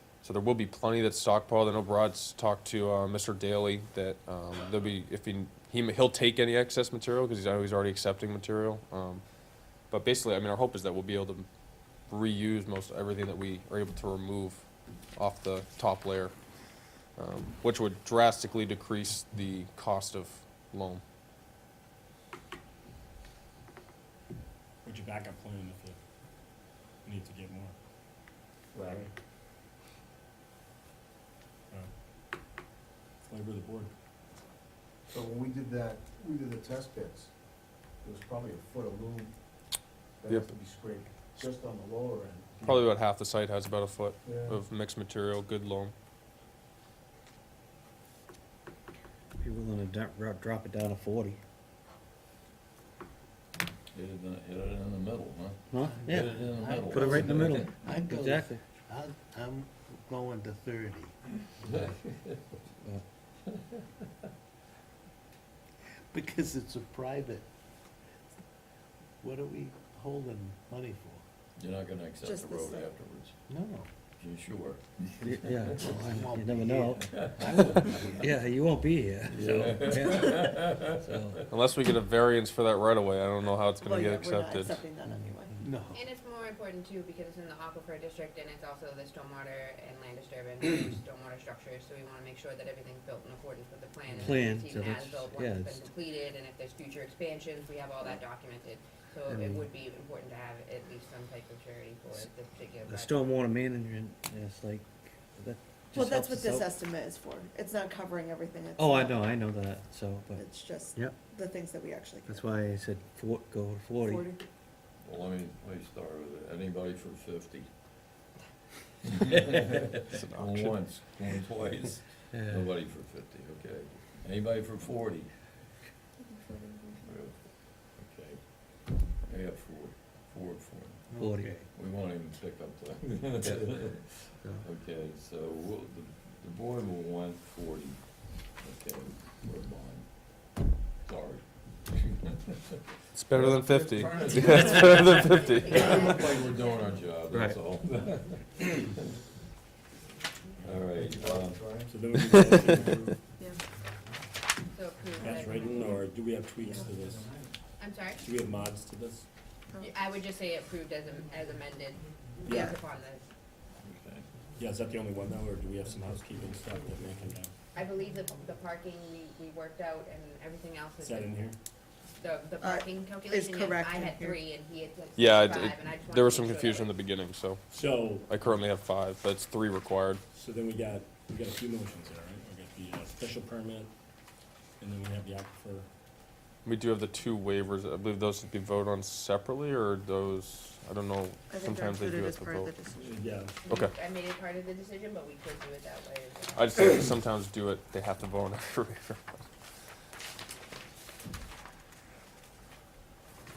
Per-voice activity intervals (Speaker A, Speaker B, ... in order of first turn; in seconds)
Speaker A: 0.2-9.2, 9.9-11.5, 12.1-14.6, 15.2-16.3, 17.2-21.0, 42.6-45.9, 81.5-84.8, 120.1-120.8, 143.1-146.1, 175.2-180.2, 186.6-192.7, 193.7-193.9, 196.5-199.4
Speaker B: 24.8-26.0, 27.0-27.7, 28.8-29.1, 33.2-33.9, 151.8-153.2, 155.2-157.3, 158.2-159.3, 162.4-162.7, 164.6-167.5, 171.0-171.6, 177.7-178.6, 180.3-183.9, 184.8-185.9, 193.0-193.6
Speaker C: 28.7-29.1, 35.1-37.3, 38.0-39.3, 40.2-42.9, 44.2-44.6, 151.0-152.1
Speaker D: 49.4-51.4, 55.7-58.6, 75.2-81.4, 94.1-95.8, 99.3-99.7, 102.8-106.7, 108.8-111.2, 112.2-114.3, 122.3-122.6, 131.2-131.5, 147.3-147.6
Speaker E: 53.9-57.8, 61.6-62.4, 63.5-63.8, 71.5-73.4, 74.2-76.0, 76.9-78.0, 79.3-81.4, 115.0-117.7, 119.0-125.8, 127.0-149.1, 150.6-151.7, 163.8-164.3
Speaker F: 55.9-61.2, 66.1-67.5, 69.2-71.2, 73.5-73.9, 75.9-78.2, 85.6-86.0, 131.1-131.7
Speaker G: 72.2-72.9, 83.8-85.6, 105.9-109.2, 110.3-112.4, 114.0-114.4, 126.2-127.0, 159.7-160.0, 162.5-162.8, 172.6-174.4, 191.5-193.2
Speaker H: 85.9-103.2, 144.4-147.0, 154.7-156.0, 157.8-158.2, 159.8-163.2, 167.7-171.4, 172.2-176.9, 193.6-196.8